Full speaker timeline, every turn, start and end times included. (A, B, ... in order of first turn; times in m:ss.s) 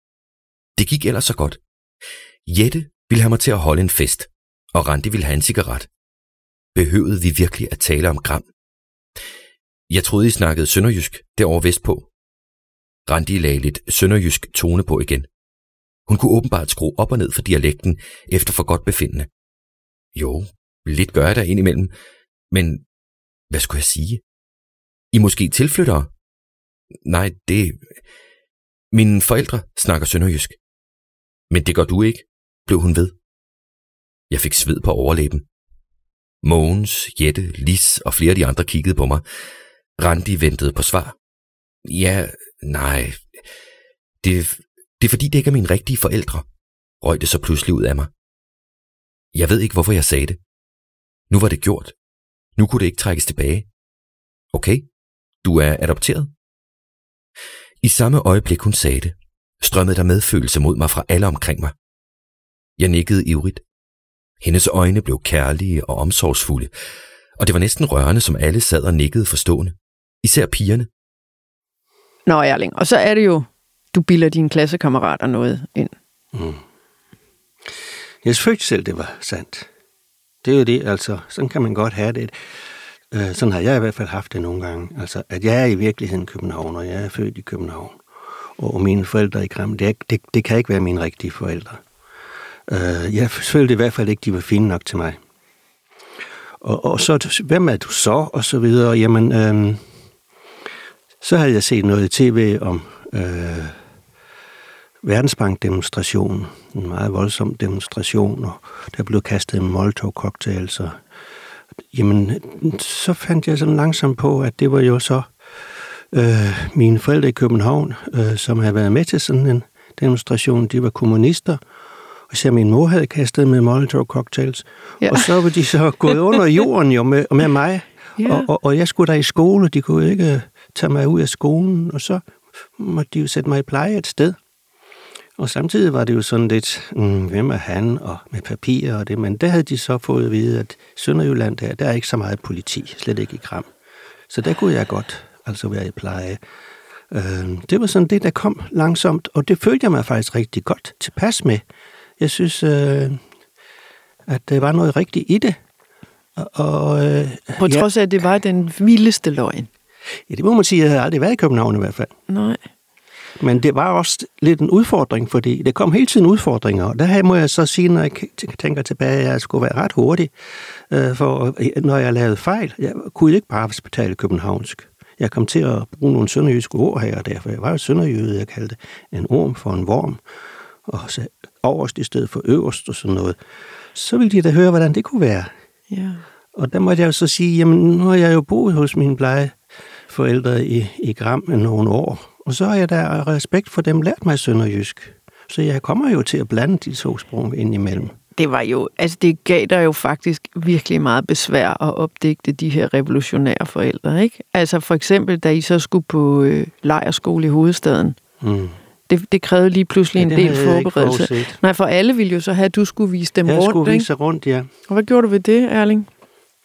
0:00.8-0:01.6 A
0:02.4-0:05.9 A
0:06.7-0:08.4 A
0:09.9-0:12.1 A
0:13.0-0:15.3 A
0:16.1-0:19.3 A
0:20.1-0:21.9 A
0:22.5-0:22.8 A
0:23.5-0:24.2 A
0:25.1-0:26.1 A
0:27.0-0:27.9 A
0:28.9-0:30.6 A
0:31.5-0:33.1 A
0:34.3-0:35.4 A
0:36.4-0:39.2 A
0:40.0-0:41.1 A
0:41.8-0:43.3 A
0:44.2-0:46.4 A
0:47.0-0:48.1 A
0:49.3-0:50.4 A
0:51.3-0:51.9 A
0:52.6-0:53.6 A
0:54.5-0:54.8 A
0:55.4-0:56.3 A
0:57.8-1:01.7 A
1:02.8-1:03.6 A
1:04.4-1:06.7 A
1:07.4-1:10.9 A
1:12.2-1:15.9 B
1:16.3-1:16.6 C
1:18.2-1:19.7 C
1:20.4-1:22.3 C
1:23.1-1:28.0 C
1:28.6-1:31.8 C
1:32.7-1:35.2 C
1:36.6-1:39.8 C
1:41.2-1:43.7 C
1:45.0-1:51.0 C
1:51.9-1:55.3 C
1:56.1-2:01.6 C
2:02.3-2:12.2 C
2:05.0-2:05.3 B
2:08.2-2:08.5 B
2:12.8-2:14.4 C
2:15.4-2:23.7 C
2:24.3-2:26.4 C
2:27.1-2:31.6 C
2:32.2-2:33.2 C
2:34.3-2:35.6 C
2:36.4-2:37.9 C
2:37.6-2:39.7 B
2:40.3-2:42.1 C
2:42.3-2:42.6 B
2:43.4-2:50.3 C
2:50.9-3:00.2 C
3:00.8-3:03.4 C
3:03.9-3:05.5 C
3:05.9-3:06.2 B
3:06.5-3:09.6 C
3:10.1-3:18.1 C
3:18.4-3:28.2 B
3:28.4-3:28.8 C
3:29.1-3:34.1 B
3:30.2-3:31.6 C
3:33.4-3:34.7 C
3:34.9-3:36.1 B